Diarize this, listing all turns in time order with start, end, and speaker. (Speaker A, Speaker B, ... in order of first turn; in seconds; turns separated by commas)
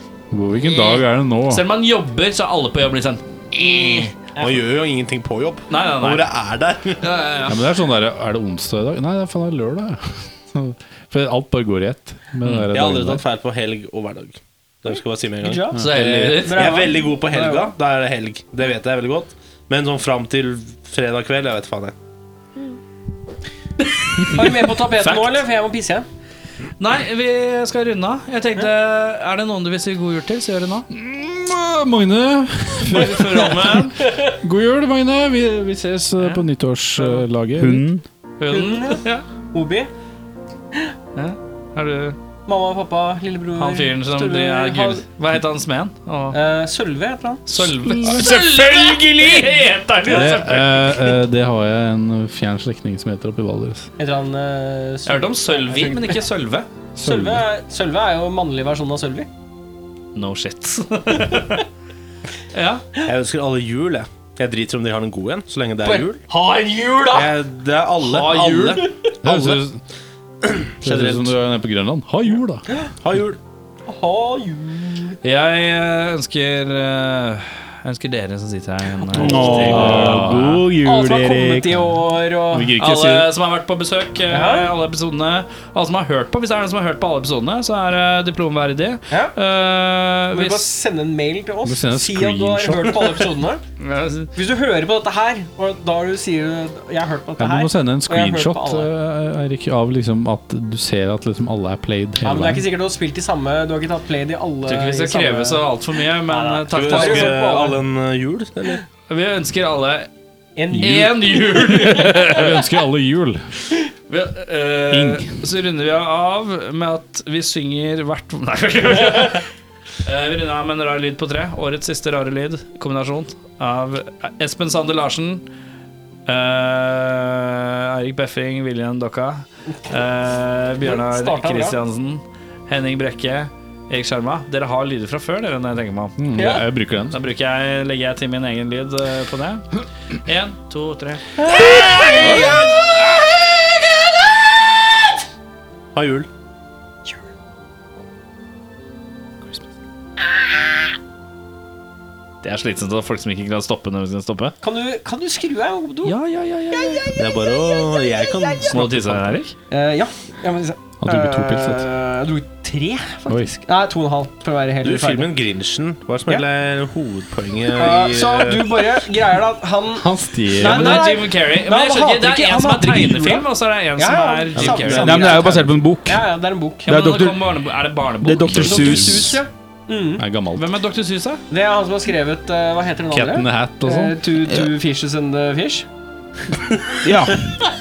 Speaker A: 0.3-1.6, Speaker B: 0.6-4.1, Speaker C: 4.4-7.0, Speaker B: 5.7-6.3, Speaker B: 7.0-7.6, Speaker A: 7.5-13.2, Speaker C: 12.7-21.9, Speaker D: 15.4-17.7, Speaker B: 15.8-16.9, Speaker B: 24.1-25.4, Speaker D: 24.3-26.0, Speaker B: 26.8-30.9, Speaker A: 30.9-37.8, Speaker B: 32.8-34.0, Speaker D: 34.0-34.3, Speaker B: 36.2-36.4, Speaker E: 37.6-38.0, Speaker B: 38.4-39.2, Speaker D: 38.5-39.9, Speaker B: 41.1-42.2, Speaker D: 42.5-45.0, Speaker B: 43.6-46.4, Speaker D: 46.3-47.5, Speaker B: 47.5-51.2, Speaker E: 48.0-49.5, Speaker A: 50.0-53.9, Speaker D: 54.0-56.2, Speaker B: 55.0-56.7, Speaker A: 57.0-57.4, Speaker D: 57.0-59.3, Speaker B: 60.1-61.6, Speaker B: 62.5-62.8, Speaker C: 63.0-66.2, Speaker D: 65.8-67.3, Speaker C: 67.1-69.6, Speaker B: 68.0-68.9, Speaker D: 68.8-69.1, Speaker A: 69.2-69.8, Speaker C: 70.4-71.4, Speaker A: 70.8-72.6, Speaker C: 73.0-73.4, Speaker D: 73.9-75.2, Speaker B: 75.2-80.6, Speaker A: 79.1-83.3, Speaker E: 79.2-80.7, Speaker D: 80.8-82.7, Speaker B: 82.8-90.7, Speaker D: 84.3-84.7, Speaker D: 89.1-89.3, Speaker D: 90.3-93.6, Speaker A: 91.6-93.1, Speaker B: 93.8-94.3, Speaker D: 94.3-98.9, Speaker A: 97.4-102.6, Speaker D: 102.2-105.7, Speaker B: 104.7-107.4, Speaker D: 106.2-107.8, Speaker C: 106.7-108.8, Speaker B: 109.1-110.1, Speaker D: 110.5-111.7, Speaker A: 110.7-113.5, Speaker B: 110.8-112.6, Speaker B: 114.1-119.5, Speaker B: 120.0-125.4, Speaker B: 126.3-136.2, Speaker D: 130.8-131.8, Speaker A: 136.2-137.2, Speaker D: 136.3-136.6, Speaker B: 137.1-139.7, Speaker B: 140.2-142.9, Speaker D: 141.4-142.7, Speaker C: 145.9-146.3, Speaker B: 152.4-154.5, Speaker D: 154.6-156.2, Speaker B: 156.0-157.1, Speaker D: 156.7-157.1, Speaker C: 157.1-159.4, Speaker B: 158.7-159.5, Speaker D: 159.7-165.3, Speaker A: 161.0-161.9, Speaker A: 163.3-163.6, Speaker C: 164.8-168.8, Speaker D: 167.7-176.9, Speaker A: 169.9-171.2, Speaker B: 170.6-175.5, Speaker C: 174.6-175.0, Speaker E: 175.0-176.2, Speaker E: 176.8-177.4, Speaker B: 176.8-178.9, Speaker E: 178.2-179.4, Speaker A: 178.5-179.3, Speaker D: 178.6-180.2, Speaker A: 180.2-180.7, Speaker B: 180.5-181.4, Speaker D: 181.5-185.9, Speaker A: 183.1-184.2, Speaker E: 187.0-187.4